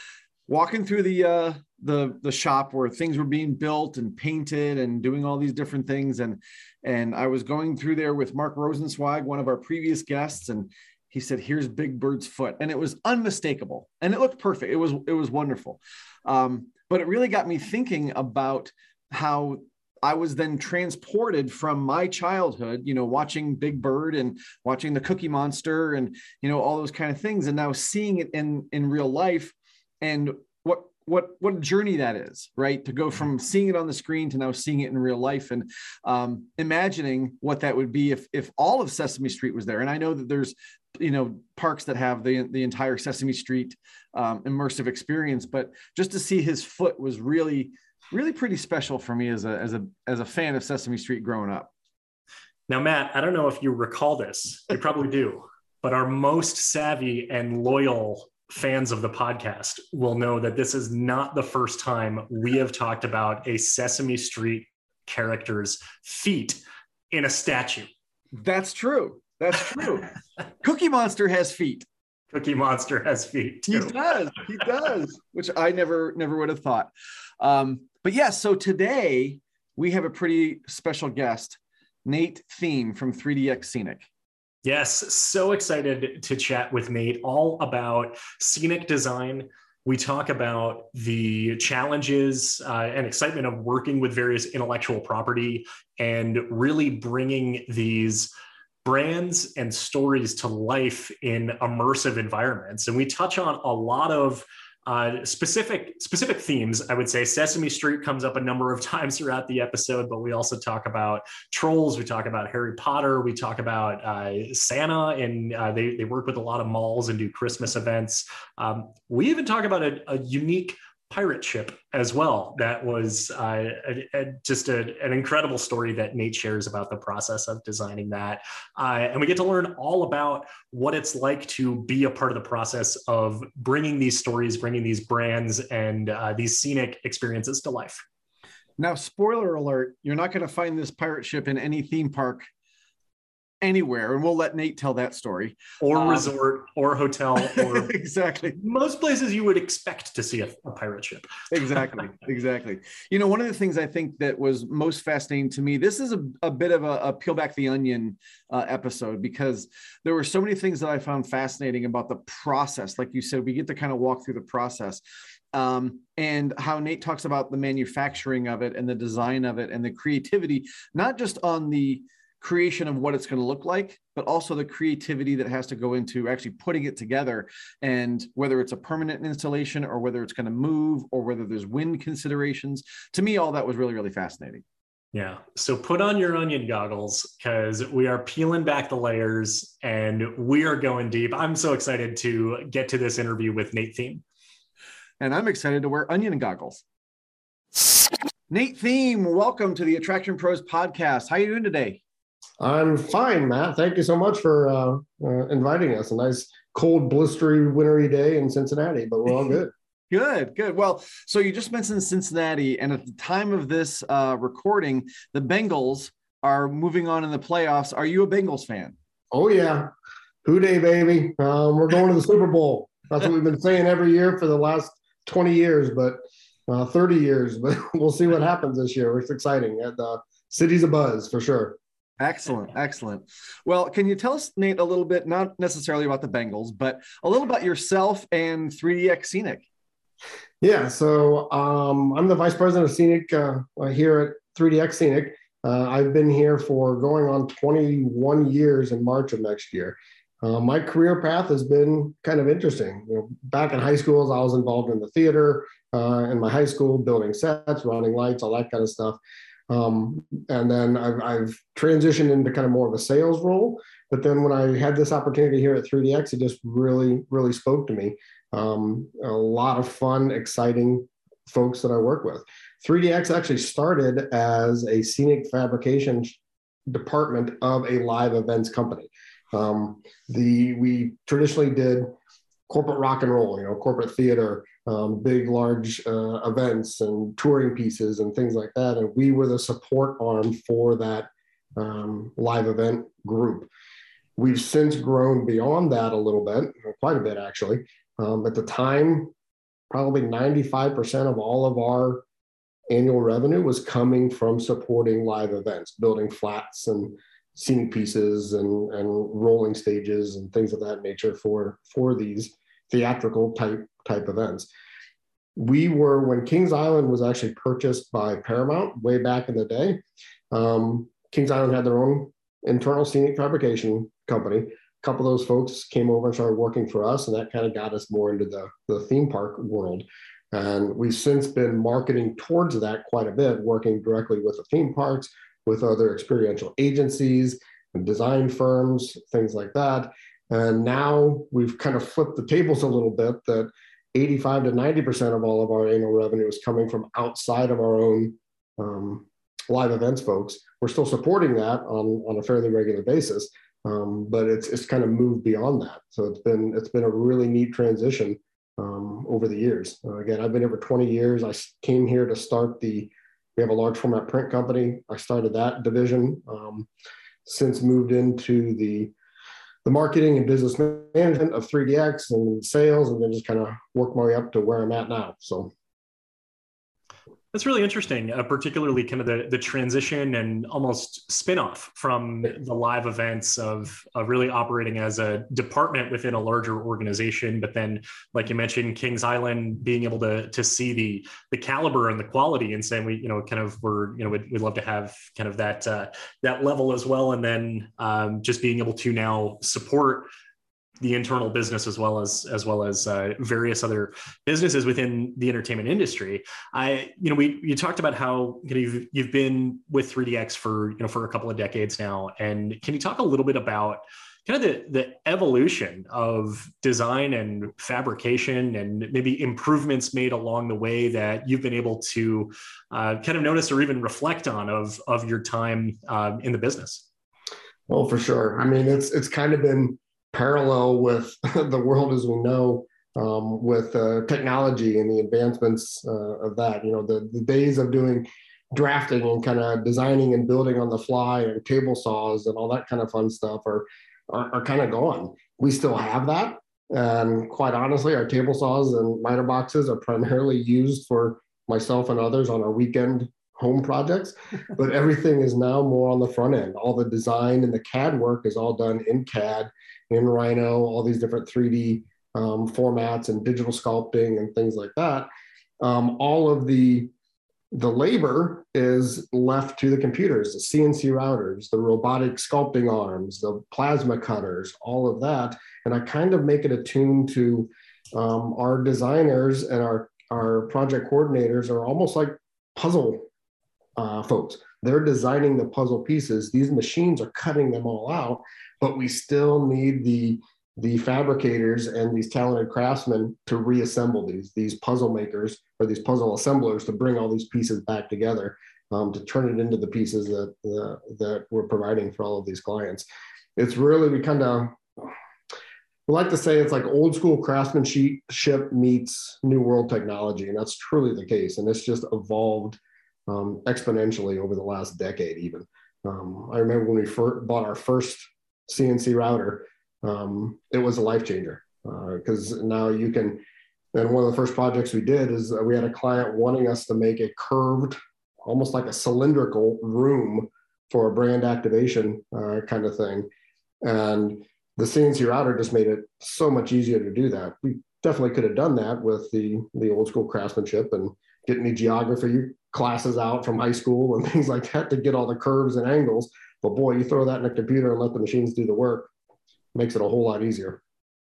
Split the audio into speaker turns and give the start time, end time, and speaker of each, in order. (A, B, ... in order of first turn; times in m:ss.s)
0:00.5-0:51.7 A
0:52.7-1:06.6 B
1:07.1-1:07.9 B
1:08.3-1:10.1 A
1:10.6-1:11.9 A
1:12.3-1:14.0 B
1:13.7-1:24.1 A
1:24.6-1:38.3 B
1:38.8-2:18.0 B
2:18.8-2:22.4 A
2:23.6-2:26.3 A
2:25.8-2:27.9 B
2:27.4-2:28.6 A
2:28.5-2:31.5 B
2:31.5-2:45.0 A
2:45.5-3:04.6 A
3:05.1-3:14.2 B
3:15.2-3:16.8 A
3:18.5-3:22.0 A
3:22.6-3:29.7 C
3:30.1-3:39.0 A
3:39.3-3:39.9 C
3:40.4-3:51.8 C
3:52.2-3:59.6 A
4:00.6-4:36.4 C
4:36.9-4:42.1 C
4:42.7-4:53.7 C
4:54.4-4:59.3 C
4:59.9-5:02.2 C
5:02.9-5:14.7 C
5:15.6-5:20.0 C
5:20.5-6:06.9 C
6:07.5-6:09.1 C
6:09.8-6:15.7 C
6:17.5-6:40.3 B
6:41.0-7:07.1 B
7:07.9-7:45.3 C
7:45.8-7:47.1 C
7:47.7-8:03.3 C
8:04.0-8:23.1 C
8:23.6-8:24.8 C
8:26.1-8:43.4 C
8:43.9-8:53.3 C
8:53.8-9:09.1 C
9:09.8-9:10.8 C